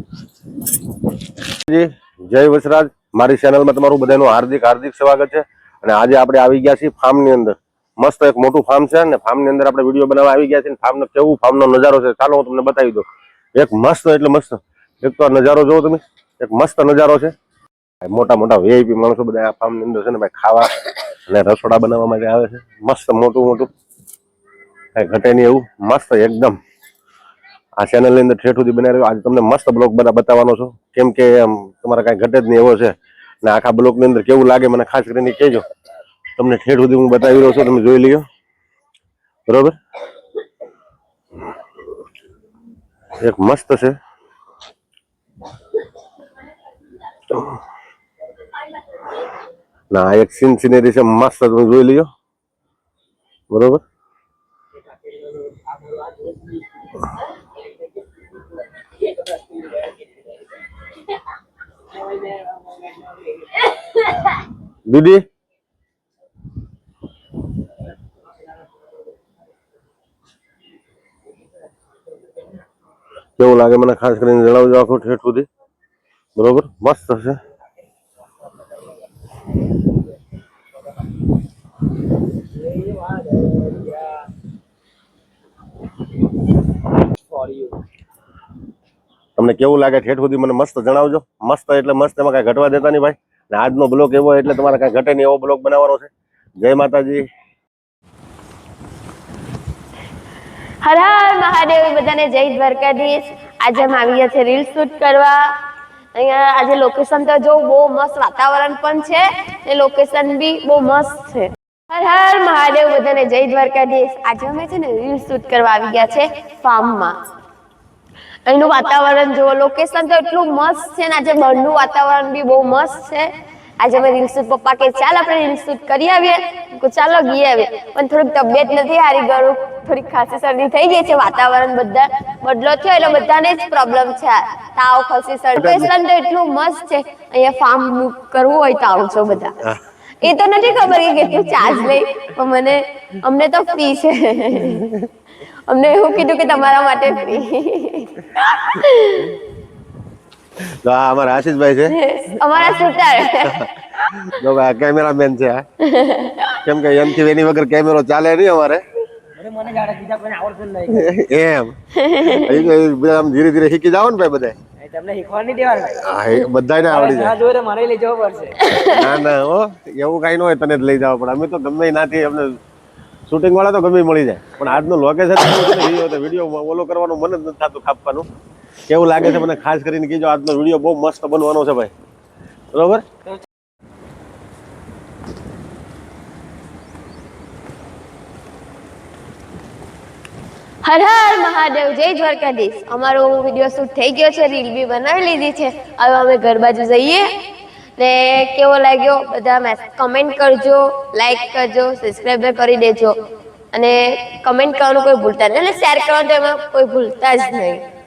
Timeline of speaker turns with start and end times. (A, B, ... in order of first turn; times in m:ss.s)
0:01.6-0:17.3 A
0:18.0-0:23.7 A
0:25.0-0:26.6 A
0:27.8-0:35.6 A
0:36.4-0:38.3 A
0:39.5-0:39.8 A
0:43.2-0:44.0 A
0:49.9-0:52.1 A
0:53.5-0:53.8 A
1:04.9-1:05.2 A
1:13.4-1:15.5 A
1:16.4-1:17.4 A
1:27.3-1:27.7 B
1:29.4-1:37.3 A
1:40.8-1:45.6 C
1:46.2-1:57.2 C
1:58.5-2:19.6 C
2:15.6-2:15.9 A
2:20.2-2:24.8 C
2:24.6-2:25.1 A
2:25.7-2:29.4 C
2:30.6-2:32.8 A
2:31.9-2:33.7 C
2:33.4-2:35.6 A
2:35.8-2:36.6 C
2:36.6-2:38.8 A
2:39.4-2:41.0 B
2:40.9-2:44.6 A
2:42.0-2:42.7 C
2:44.8-2:45.9 B
2:45.8-2:47.4 A
2:46.9-2:48.6 B
2:48.6-2:49.2 C
2:48.8-2:52.6 A
2:53.3-2:58.3 A
2:58.9-3:01.9 A
3:02.7-3:03.0 A
3:10.8-3:17.3 C
3:18.0-3:23.2 C
3:23.7-3:27.8 C